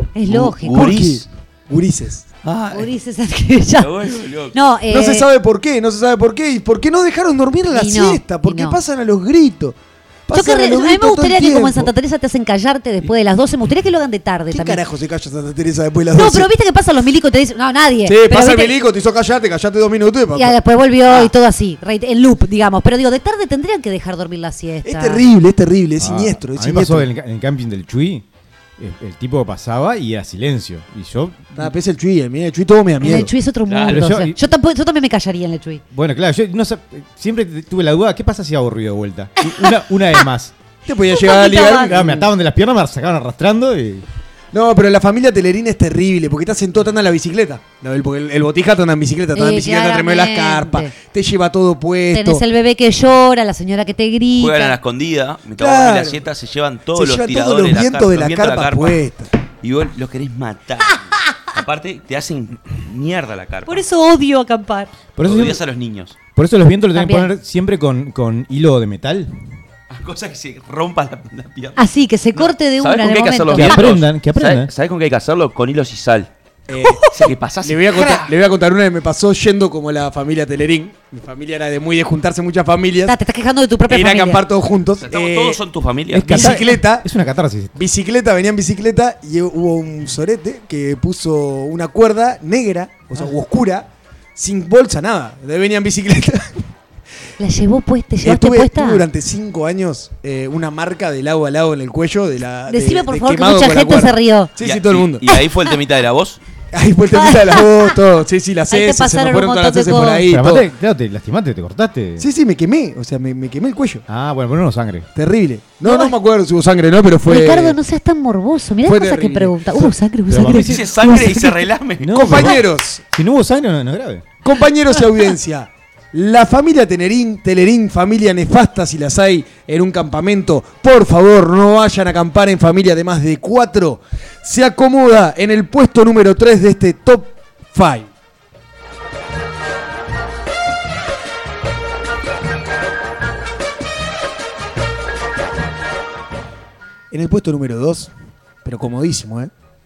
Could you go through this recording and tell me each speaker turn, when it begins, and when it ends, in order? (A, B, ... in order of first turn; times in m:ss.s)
0:00.2-0:00.9 A
0:00.3-0:01.3 B
0:00.3-0:02.2 C
0:02.4-0:02.9 B
0:02.7-0:03.9 A
0:03.8-0:04.6 B
0:04.5-0:05.3 A
0:04.9-0:09.8 C
0:07.7-0:08.8 A
0:10.3-0:11.9 C
0:10.3-0:14.8 A
0:14.5-0:16.5 C
0:16.1-0:18.7 A
0:18.1-0:21.3 C
0:20.3-0:25.2 A
0:24.8-0:27.1 C
0:26.0-0:28.2 D
0:28.8-0:31.7 D
0:31.6-0:33.3 C
0:33.0-0:35.8 A
0:33.7-0:34.0 B
0:33.9-0:34.4 D
0:35.9-0:40.5 D
0:40.9-0:42.3 C
0:41.2-0:42.0 A
0:41.7-0:44.0 D
0:44.5-0:52.4 C
0:49.4-0:50.9 A
0:52.1-0:54.8 A
0:54.4-0:59.0 B
0:55.6-0:56.2 C
0:57.0-0:59.3 C
0:59.6-1:03.8 B
1:03.7-1:04.9 A
1:05.2-1:05.6 D
1:05.2-1:06.2 B
1:06.4-1:09.3 D
1:07.0-1:07.3 A
1:09.9-1:11.8 B
1:11.8-1:13.9 A
1:12.3-1:16.3 B
1:13.5-1:14.7 D
1:16.7-1:23.2 C
1:17.0-1:18.3 B
1:23.1-1:24.4 A
1:23.9-1:25.6 C
1:25.0-1:26.5 B
1:26.1-1:27.7 D
1:26.3-1:27.1 C
1:27.8-1:36.6 C
1:37.4-1:39.0 A
1:38.2-1:45.2 C
1:42.7-1:44.5 A
1:44.6-1:46.4 B
1:46.7-1:50.7 C
1:47.2-1:47.9 A
1:48.7-1:50.3 A
1:50.3-1:52.3 D
1:52.2-1:54.0 C
1:54.1-1:55.1 D
1:55.2-1:57.8 C
1:55.8-1:56.1 A
1:57.3-2:01.5 A
1:58.8-1:59.9 C
2:00.3-2:01.5 D
2:00.5-2:02.4 B
2:02.0-2:04.2 D
2:02.1-2:03.0 C
2:04.4-2:18.1 C
2:27.1-2:28.1 C
2:28.6-2:29.5 C